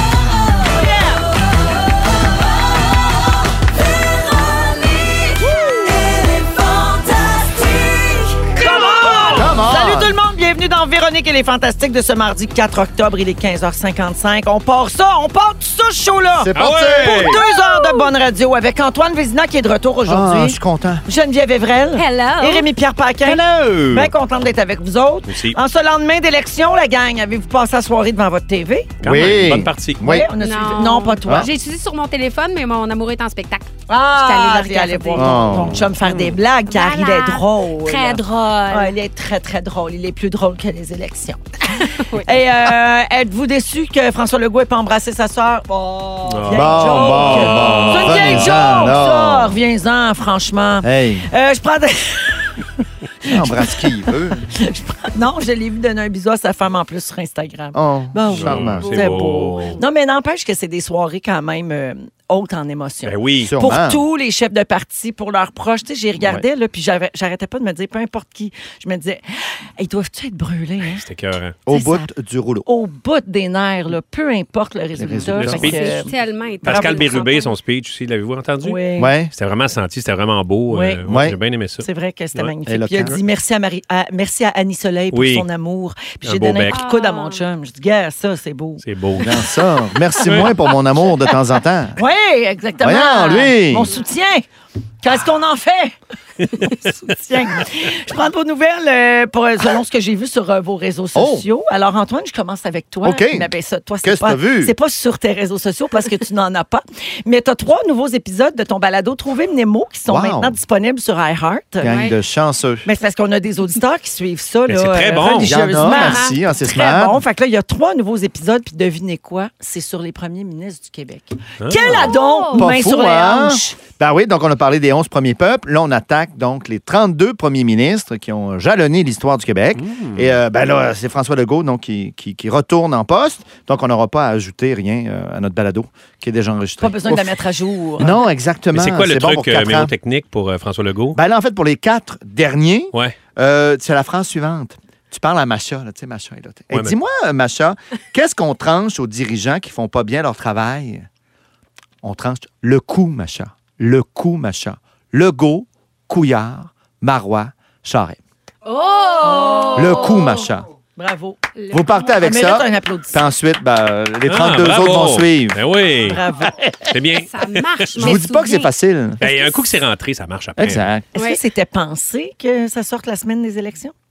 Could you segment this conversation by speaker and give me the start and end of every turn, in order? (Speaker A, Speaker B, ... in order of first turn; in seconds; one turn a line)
Speaker A: 5.9-29.0
Speaker B: 9.2-10.2
Speaker B: 16.4-17.4
Speaker C: 16.6-17.4
Speaker D: 17.7-18.1
Speaker B: 20.1-21.1
Speaker D: 21.9-22.7
Speaker C: 23.2-24.1
Speaker C: 25.3-25.6
Speaker C: 29.0-30.1
Speaker B: 29.0-30.3
Speaker A: 30.0-31.5
Speaker D: 30.4-35.5
Speaker A: 33.9-52.6
Speaker B: 35.2-35.9
Speaker C: 35.5-36.2
Speaker D: 36.7-39.0
Speaker D: 41.7-42.3
Speaker C: 46.3-48.8
Speaker B: 46.5-49.6
Speaker B: 50.8-51.3
Speaker A: 53.2-53.9
Speaker B: 53.2-54.5
Speaker A: 54.5-71.0
Speaker B: 57.7-59.2
Speaker C: 58.3-59.8
Speaker C: 63.0-63.5
Speaker B: 63.4-64.0
Speaker B: 66.2-66.5
Speaker C: 70.8-71.6
Speaker B: 71.7-72.7
Speaker A: 71.7-72.1
Speaker A: 72.7-77.1
Speaker B: 75.0-75.7
Speaker C: 75.2-76.0
Speaker D: 75.6-77.5
Speaker C: 76.6-78.8
Speaker A: 78.6-79.1
Speaker B: 79.0-79.3
Speaker C: 79.3-82.5
Speaker A: 80.7-81.1
Speaker B: 81.1-81.4
Speaker A: 81.8-88.8
Speaker B: 82.7-83.2
Speaker C: 85.1-85.5
Speaker C: 86.2-86.8
Speaker D: 86.7-87.5
Speaker C: 88.8-89.4
Speaker B: 89.2-92.0
Speaker A: 90.3-90.6
Speaker A: 92.0-94.5
Speaker B: 92.8-93.9
Speaker A: 95.0-96.0
Speaker C: 96.4-96.9
Speaker A: 96.6-111.9
Speaker B: 101.2-101.5
Speaker B: 103.0-103.5
Speaker B: 104.0-104.8
Speaker B: 110.1-110.6
Speaker B: 111.8-112.9
Speaker D: 111.8-112.2
Speaker A: 112.8-123.8
Speaker C: 114.7-115.6
Speaker B: 115.4-117.2
Speaker D: 115.8-116.4
Speaker C: 121.6-122.2
Speaker D: 121.8-122.6
Speaker B: 122.5-137.4
Speaker C: 129.8-130.4
Speaker A: 136.8-138.2
Speaker B: 138.0-139.9
Speaker C: 138.7-141.2
Speaker B: 141.1-151.1
Speaker C: 146.7-147.0
Speaker B: 152.0-158.2
Speaker D: 158.7-160.5
Speaker A: 159.2-160.3
Speaker B: 159.7-160.7
Speaker A: 161.0-161.4
Speaker D: 161.6-162.2
Speaker B: 161.7-165.6
Speaker A: 162.2-163.2
Speaker C: 164.3-166.2
Speaker A: 166.1-166.7
Speaker C: 166.9-167.9
Speaker D: 167.2-168.7
Speaker B: 168.0-169.2
Speaker C: 169.2-170.9
Speaker B: 170.6-171.1
Speaker D: 171.2-171.4
Speaker A: 171.2-173.9